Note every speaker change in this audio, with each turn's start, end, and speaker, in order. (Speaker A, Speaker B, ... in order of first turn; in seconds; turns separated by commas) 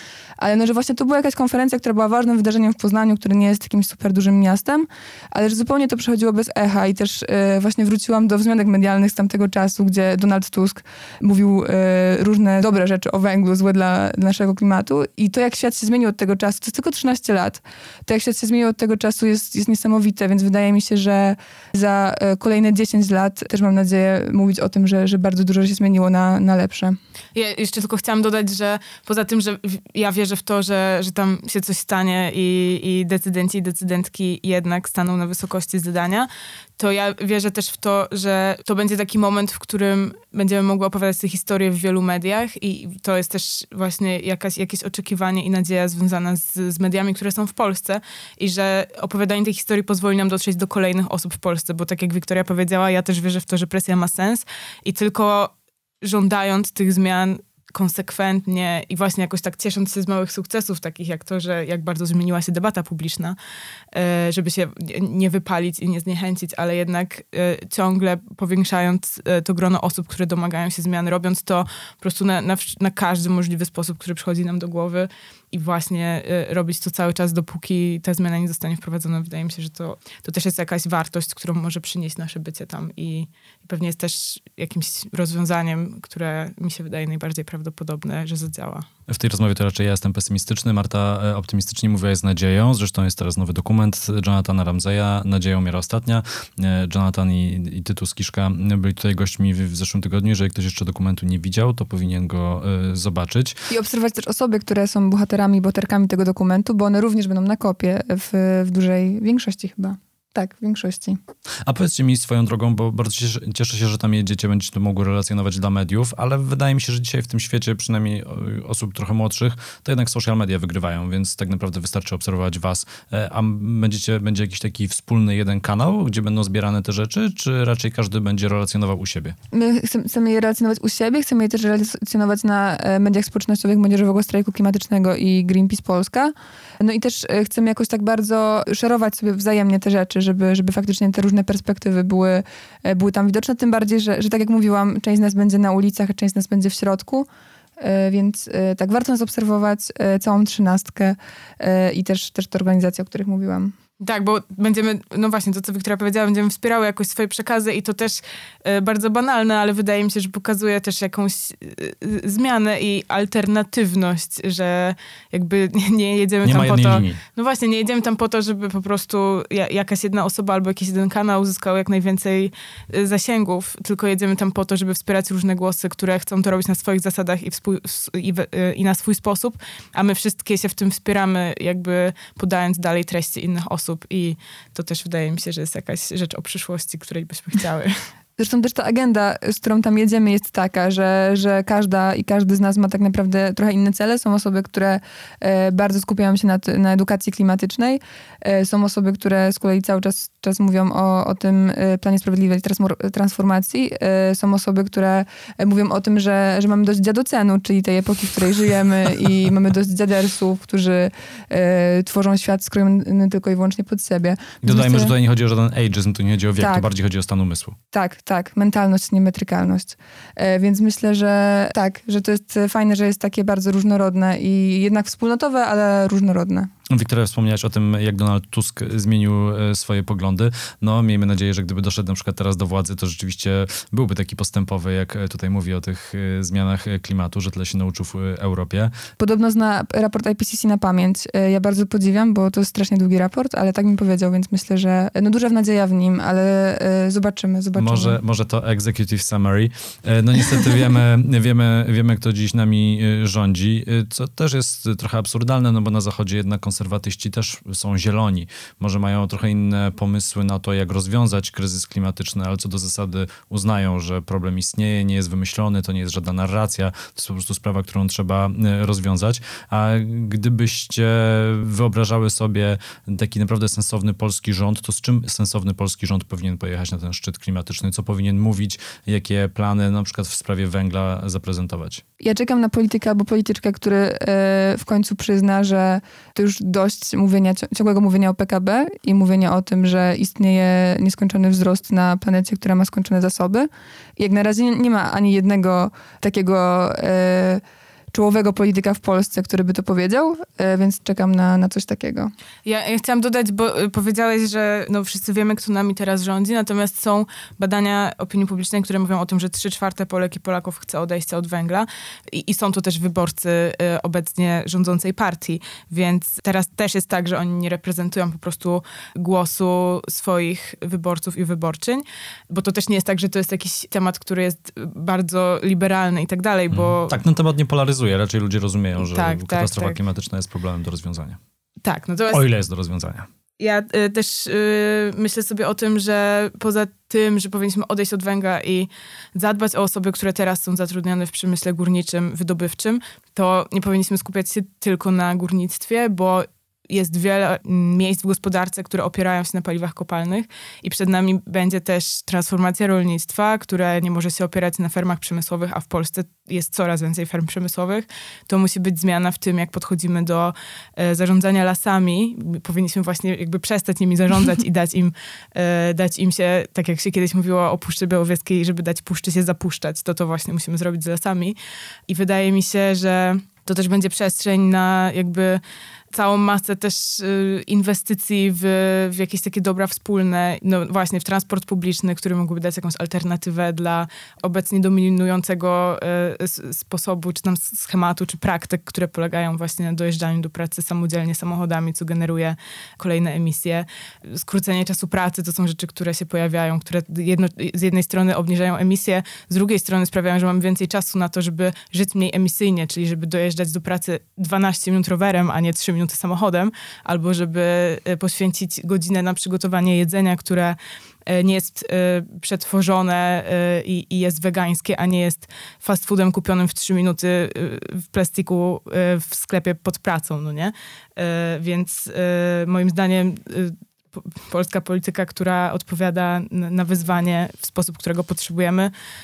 Speaker A: 0.4-27.0, Speaker B: 27.3-63.4, Speaker B: 63.9-88.9, Speaker C: 89.1-103.7, Speaker A: 103.7-111.2, Speaker C: 111.7-129.3, Speaker A: 129.5-153.7, Speaker B: 154.0-188.0, Speaker C: 166.4-167.2, Speaker A: 188.4-215.1, Speaker C: 214.6-217.8, Speaker A: 216.6-216.9, Speaker A: 217.9-226.7, Speaker C: 226.9-238.9, Speaker A: 239.2-248.2, Speaker C: 247.8-282.0, Speaker A: 282.2-302.3, Speaker B: 302.6-327.2, Speaker C: 326.7-331.4, Speaker B: 329.0-330.0, Speaker B: 331.8-332.4, Speaker C: 332.3-333.2, Speaker B: 333.6-371.6, Speaker B: 372.1-428.9